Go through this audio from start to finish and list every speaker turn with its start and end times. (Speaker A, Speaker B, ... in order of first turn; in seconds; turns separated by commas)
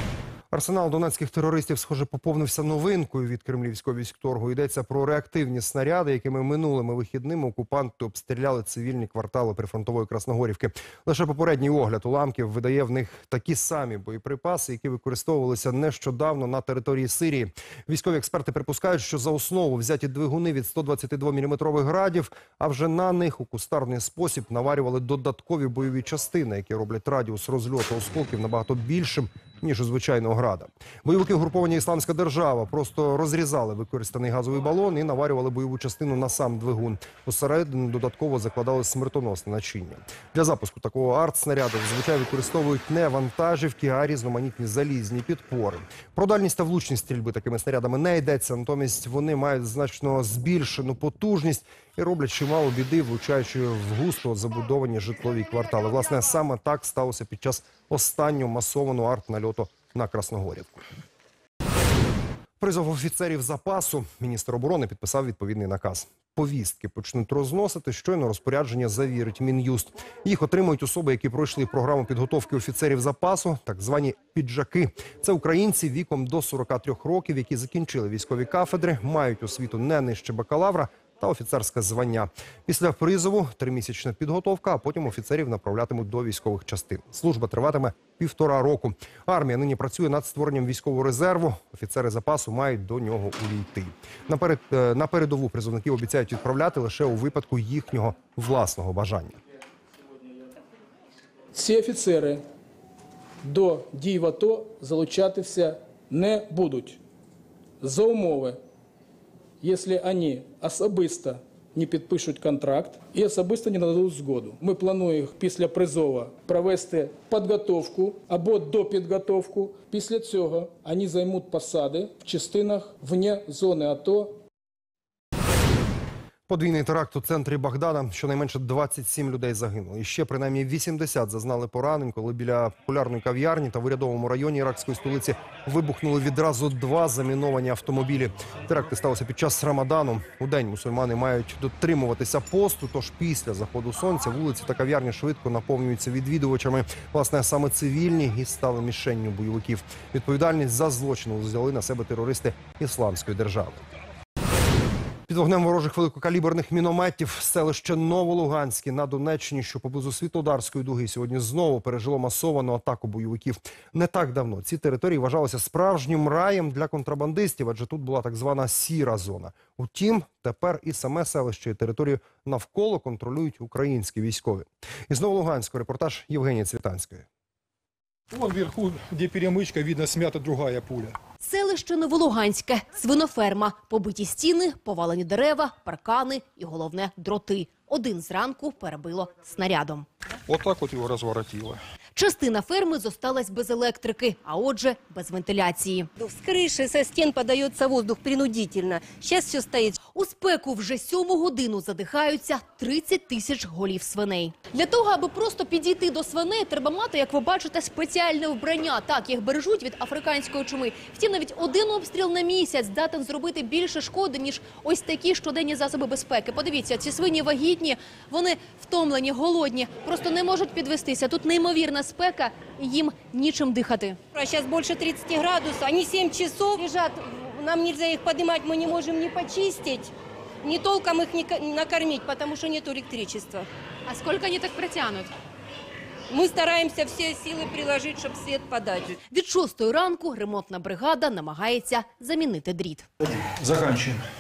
Speaker A: 0.5-60.8, Speaker A: 62.6-99.4, Speaker B: 101.5-102.4, Speaker B: 103.4-107.0, Speaker B: 107.8-108.6, Speaker B: 109.6-124.4, Speaker A: 126.5-153.8, Speaker A: 155.3-177.2, Speaker C: 178.3-181.2, Speaker D: 181.4-190.1, Speaker C: 190.5-191.8, Speaker D: 192.2-196.1, Speaker E: 196.2-199.9, Speaker D: 200.1-224.2, Speaker E: 224.3-233.7, Speaker D: 234.1-235.3, Speaker E: 236.3-239.2, Speaker D: 239.3-243.1, Speaker C: 243.6-244.2